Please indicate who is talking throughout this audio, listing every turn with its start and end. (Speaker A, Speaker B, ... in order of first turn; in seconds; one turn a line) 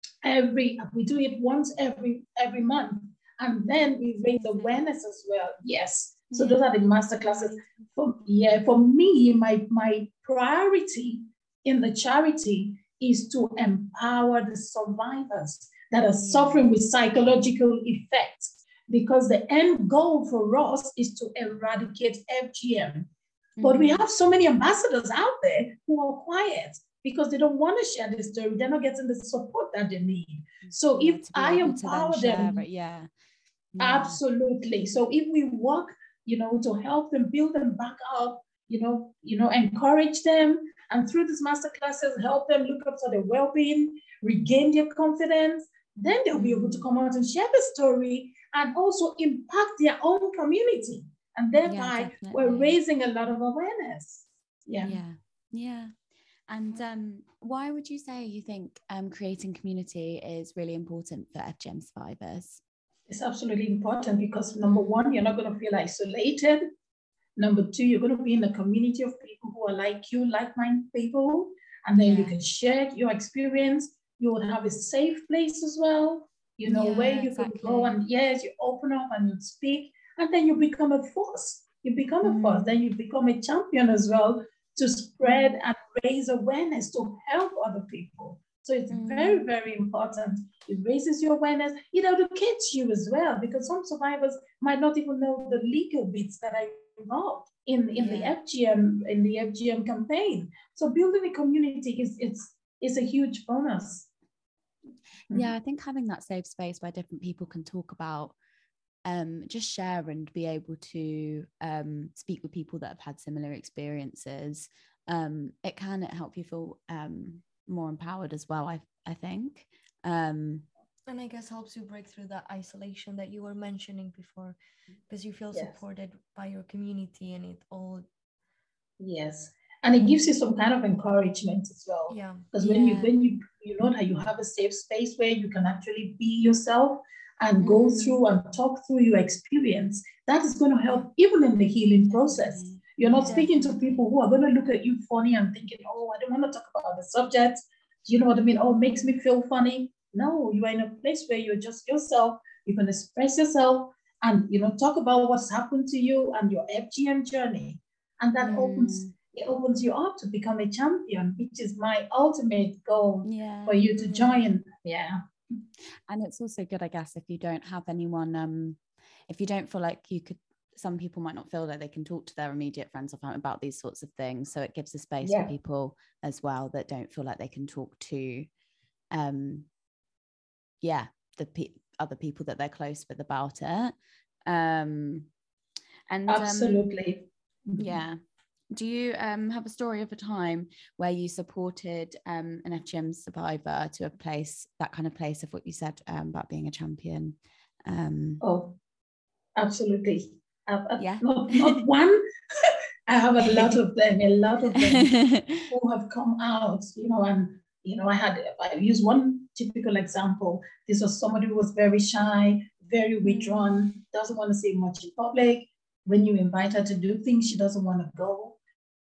Speaker A: 0.2-23.1
Speaker B: 4.4-4.8
Speaker B: 6.3-7.7
Speaker B: 16.2-16.7
Speaker B: 23.6-24.1
Speaker A: 23.6-32.6
Speaker B: 30.6-33.1
Speaker B: 33.7-34.2
Speaker A: 33.8-55.0
Speaker B: 46.4-46.9
Speaker B: 51.7-52.8
Speaker B: 54.8-56.0
Speaker B: 56.5-62.6
Speaker A: 63.1-66.7
Speaker B: 64.7-65.1
Speaker A: 67.4-104.1
Speaker B: 72.0-72.3
Speaker B: 76.7-78.0
Speaker B: 82.2-82.7
Speaker B: 88.9-89.5
Speaker B: 98.0-98.4
Speaker B: 105.3-108.4
Speaker B: 109.0-120.7
Speaker C: 121.1-124.6
Speaker C: 125.1-128.1
Speaker A: 129.0-165.2
Speaker C: 132.1-132.5
Speaker B: 132.6-133.1
Speaker B: 137.6-138.2
Speaker B: 142.1-144.0
Speaker B: 158.4-159.1
Speaker B: 163.2-164.2
Speaker B: 166.1-178.5
Speaker A: 175.2-175.5
Speaker B: 179.1-179.7
Speaker B: 180.8-183.9
Speaker B: 184.5-185.3
Speaker B: 186.1-186.9
Speaker A: 186.3-188.0
Speaker B: 187.8-188.2
Speaker B: 188.7-198.4
Speaker A: 198.4-198.8
Speaker A: 199.6-202.2
Speaker B: 201.0-201.8
Speaker A: 203.1-218.6
Speaker B: 203.5-203.8
Speaker B: 204.8-205.7
Speaker B: 213.2-213.9